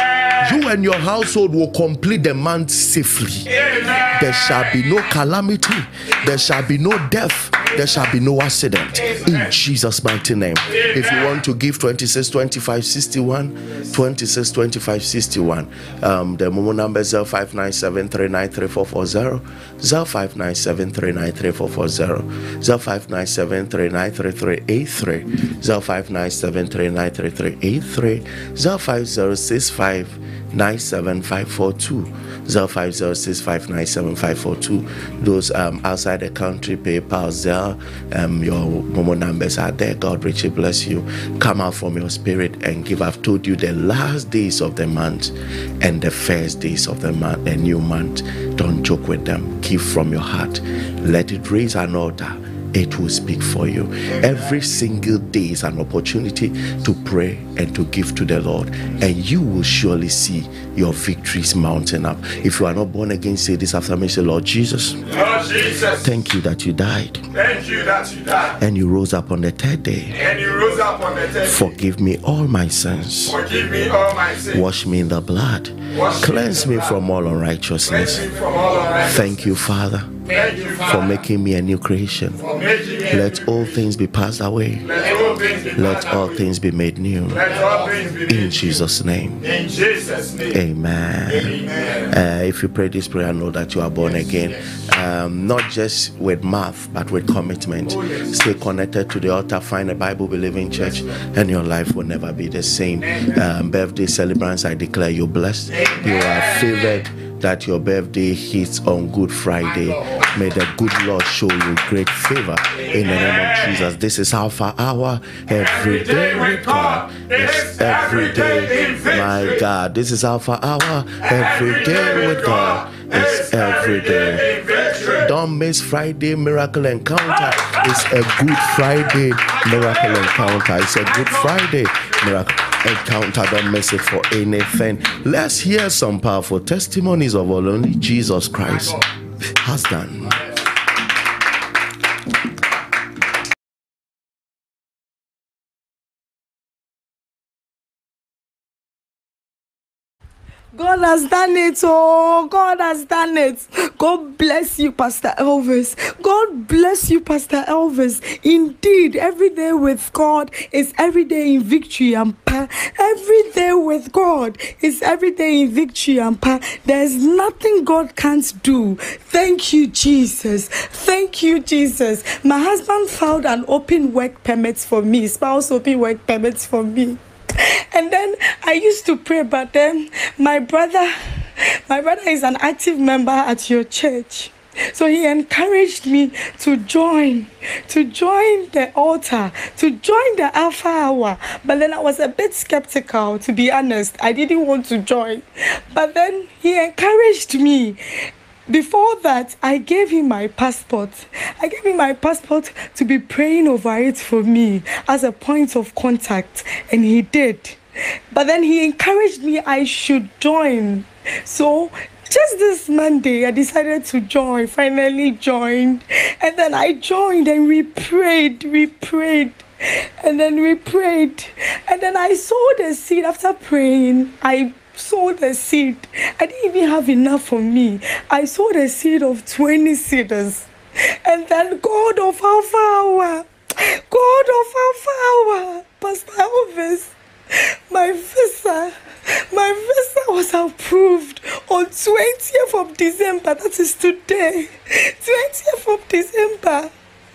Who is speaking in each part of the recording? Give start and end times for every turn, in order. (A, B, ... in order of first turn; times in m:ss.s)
0:00.4-0:03.5 A
0:04.1-1:05.2 A
1:05.3-1:05.8 B
1:05.8-1:07.3 A
1:07.4-1:08.5 B
1:08.6-1:10.2 A
1:10.2-1:11.4 B
1:11.4-1:13.4 A
1:13.4-1:14.4 B
1:14.5-1:25.1 A
1:20.5-1:20.8 B
1:25.2-1:25.7 B
1:25.7-1:27.6 A
1:27.7-1:28.1 B
1:28.2-1:29.6 A
1:29.6-1:30.4 B
1:30.5-2:19.0 A
2:19.6-2:20.4 A
2:30.7-2:57.2 C
2:57.9-3:01.1 C
3:01.9-3:18.0 C
3:18.7-3:27.8 C
3:28.3-3:39.6 C
3:40.2-3:50.7 C
3:51.2-3:53.5 C
3:54.1-3:57.1 C
3:57.9-3:59.0 C
3:59.5-4:06.9 C